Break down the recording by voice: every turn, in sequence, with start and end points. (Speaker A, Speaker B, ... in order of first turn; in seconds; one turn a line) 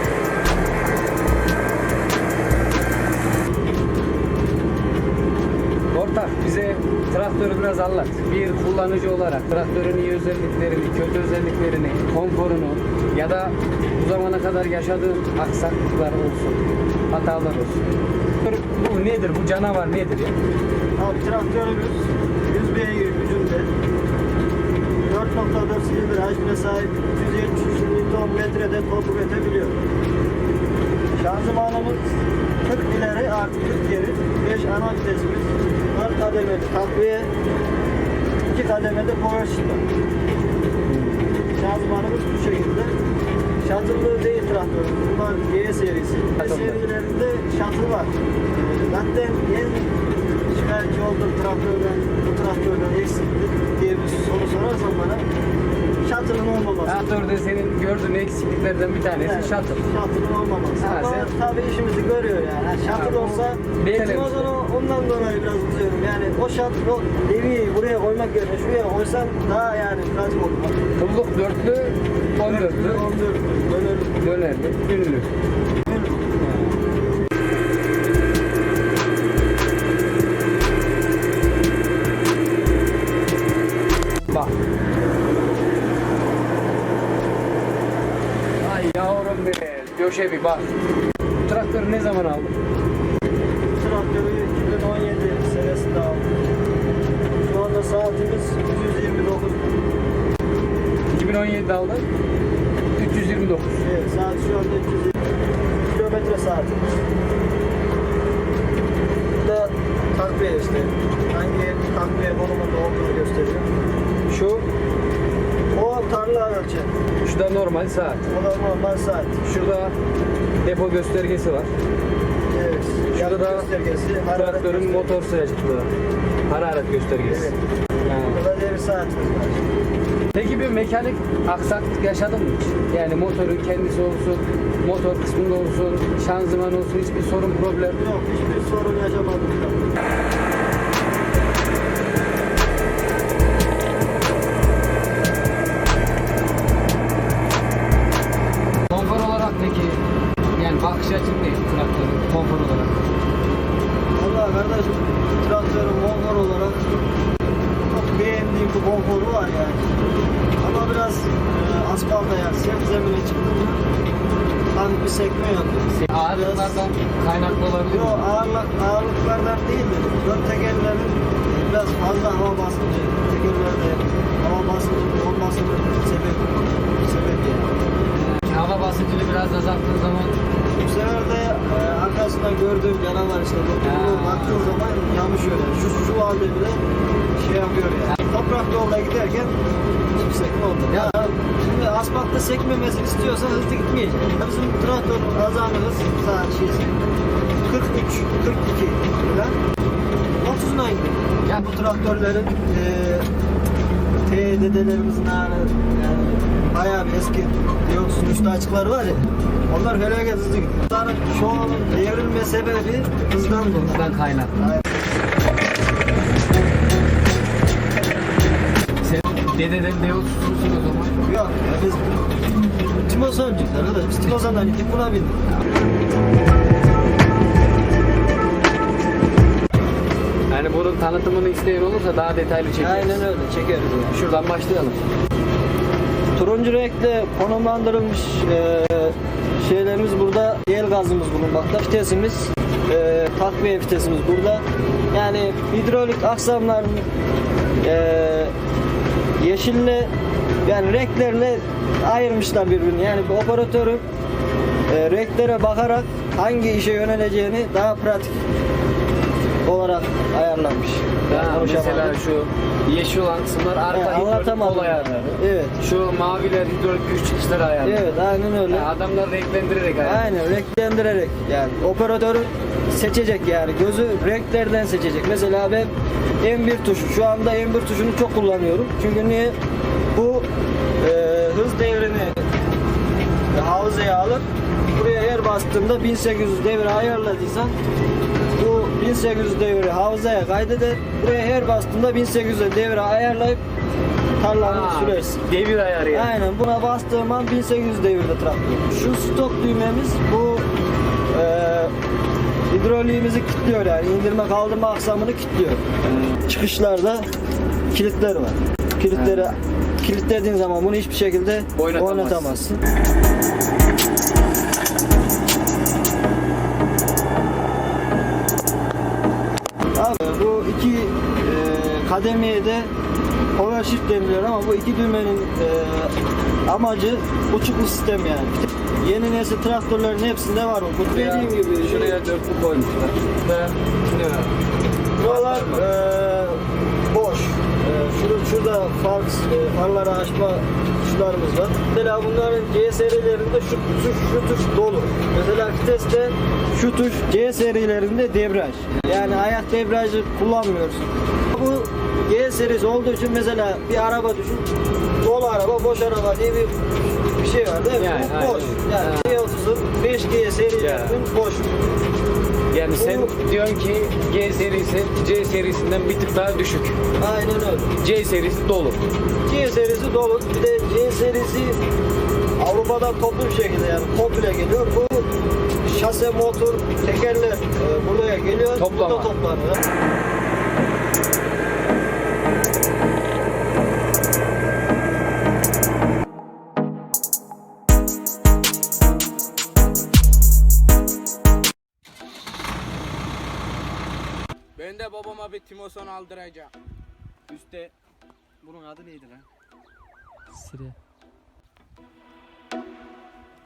Speaker A: 5.9-17.8
Speaker A: 18.4-20.4
Speaker B: 21.0-23.7
Speaker B: 25.1-29.8
Speaker B: 31.2-32.1
Speaker B: 32.6-37.3
Speaker B: 38.5-39.9
Speaker A: 40.9-41.4
Speaker B: 41.5-42.9
Speaker B: 43.6-50.0
Speaker A: 46.4-46.8
Speaker B: 50.5-55.2
Speaker B: 56.0-57.0
Speaker A: 56.9-59.8
Speaker B: 59.1-70.8
Speaker A: 60.8-61.3
Speaker A: 62.8-64.5
Speaker A: 71.0-73.1
Speaker B: 72.4-74.3
Speaker A: 74.2-75.3
Speaker B: 75.8-76.3
Speaker A: 76.4-76.8
Speaker A: 84.3-84.5
Speaker A: 88.6-90.7
Speaker A: 91.4-92.5
Speaker B: 93.8-96.3
Speaker B: 97.4-99.8
Speaker A: 101.1-102.1
Speaker A: 103.0-103.8
Speaker B: 103.8-105.2
Speaker B: 105.9-106.8
Speaker B: 109.4-113.7
Speaker A: 114.3-114.7
Speaker B: 115.7-116.9
Speaker A: 117.2-118.3
Speaker B: 118.3-119.4
Speaker A: 119.4-119.9
Speaker A: 120.6-121.7
Speaker B: 122.5-125.2
Speaker A: 123.1-123.7
Speaker A: 124.3-125.9
Speaker A: 126.5-128.4
Speaker B: 127.2-129.6
Speaker A: 130.3-138.0
Speaker B: 137.9-139.9
Speaker A: 148.9-150.0
Speaker A: 150.6-153.0
Speaker B: 154.2-156.9
Speaker B: 157.9-159.9
Speaker B: 160.6-163.8
Speaker B: 164.7-166.8
Speaker A: 166.0-168.3
Speaker B: 167.8-177.7
Speaker A: 178.1-180.4
Speaker B: 180.8-186.8
Speaker A: 183.8-184.8
Speaker B: 187.4-189.6
Speaker B: 190.2-197.0
Speaker A: 190.9-191.2
Speaker B: 197.7-199.6
Speaker B: 200.4-203.3
Speaker A: 201.5-201.7
Speaker B: 204.3-214.0
Speaker A: 213.9-214.5
Speaker B: 214.6-214.9
Speaker A: 219.0-221.2
Speaker B: 221.2-222.1
Speaker B: 223.1-225.4
Speaker A: 230.5-233.3
Speaker B: 232.8-234.1
Speaker A: 234.1-235.0
Speaker B: 236.4-247.1
Speaker B: 247.8-248.5
Speaker B: 249.4-250.1
Speaker B: 250.7-254.1
Speaker B: 254.9-258.4
Speaker B: 259.6-262.2
Speaker A: 261.3-270.4
Speaker B: 263.9-265.8
Speaker B: 267.8-268.9
Speaker B: 270.0-275.9
Speaker B: 276.4-279.6
Speaker B: 280.1-280.5
Speaker B: 281.0-282.4
Speaker B: 283.5-287.8
Speaker B: 288.6-293.6
Speaker B: 294.4-295.4
Speaker A: 294.6-296.4
Speaker B: 296.1-300.7
Speaker B: 301.3-301.9
Speaker B: 302.7-305.9
Speaker A: 306.0-306.4
Speaker B: 306.4-307.2
Speaker B: 307.9-312.8
Speaker A: 309.1-309.5
Speaker A: 311.8-312.6
Speaker B: 320.0-322.9
Speaker B: 323.6-326.1
Speaker B: 326.7-332.2
Speaker A: 331.1-334.6
Speaker B: 335.2-354.7
Speaker A: 335.2-335.9
Speaker A: 348.9-349.4
Speaker B: 355.2-356.8
Speaker B: 357.4-361.7
Speaker A: 358.0-359.4
Speaker A: 360.8-361.2
Speaker A: 362.7-367.0
Speaker B: 362.9-363.3
Speaker B: 367.2-367.9
Speaker A: 368.0-369.0
Speaker B: 369.4-371.8
Speaker B: 372.6-375.3
Speaker B: 375.9-379.8
Speaker A: 378.8-379.3
Speaker C: 394.8-396.7
Speaker A: 398.7-399.4
Speaker A: 400.5-400.9